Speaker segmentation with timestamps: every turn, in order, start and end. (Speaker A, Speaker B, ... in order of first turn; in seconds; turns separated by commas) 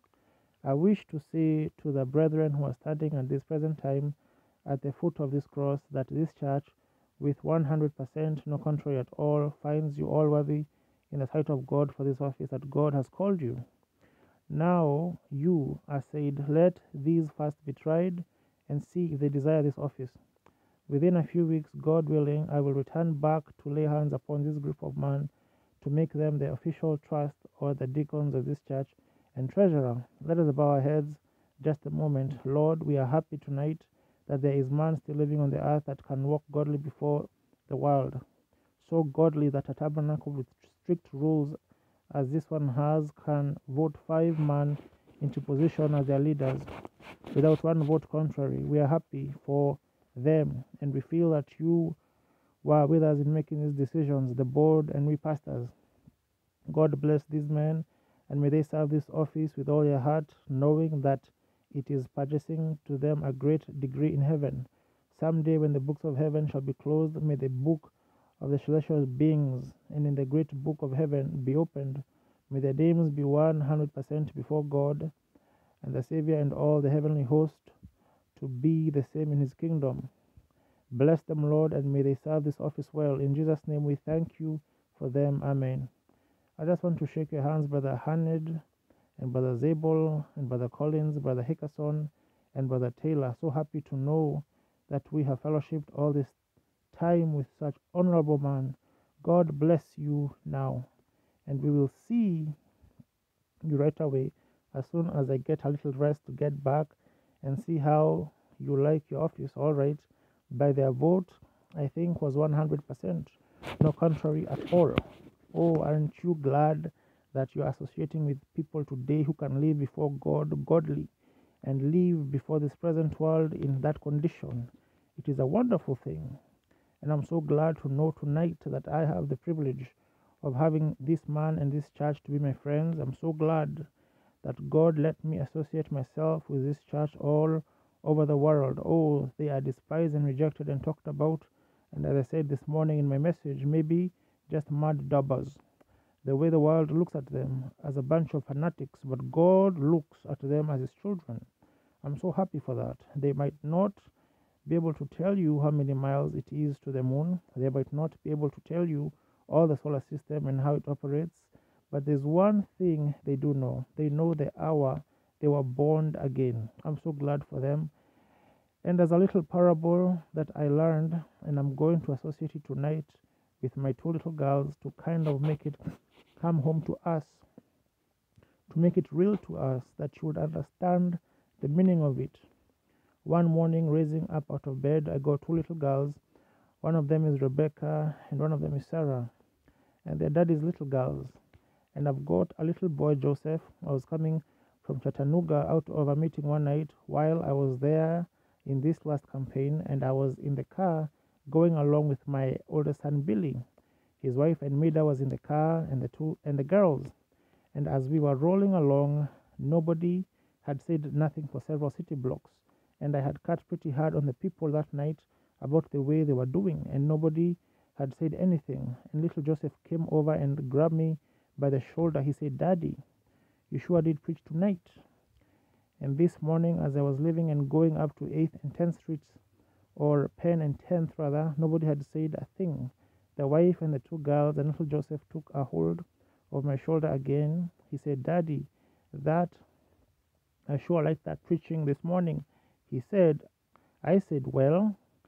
Speaker A: 0.6-13.6, Speaker A: 14.5-20.2, Speaker A: 20.9-38.2, Speaker A: 38.8-41.6, Speaker A: 42.1-46.7, Speaker A: 47.3-52.0, Speaker A: 52.6-55.7, Speaker A: 56.7-75.1, Speaker A: 75.8-77.7, Speaker A: 78.3-80.1, Speaker A: 80.9-85.9, Speaker A: 86.6-88.6, Speaker A: 89.2-96.3, Speaker A: 96.9-100.9, Speaker A: 101.5-102.5, Speaker A: 103.6-121.1, Speaker A: 121.6-126.4, Speaker A: 127.0-133.9, Speaker A: 134.4-145.6, Speaker A: 146.2-151.5, Speaker A: 152.0-154.1, Speaker A: 154.7-167.9, Speaker A: 168.8-175.8, Speaker A: 176.4-177.4, Speaker A: 178.7-182.4, Speaker A: 183.2-186.2, Speaker A: 186.8-189.3, Speaker A: 190.0-191.4, Speaker A: 191.9-203.6, Speaker A: 204.2-207.1, Speaker A: 207.7-223.0, Speaker A: 223.7-225.0, Speaker A: 226.0-229.4, Speaker A: 229.9-239.6, Speaker A: 240.7-243.4, Speaker A: 244.0-245.0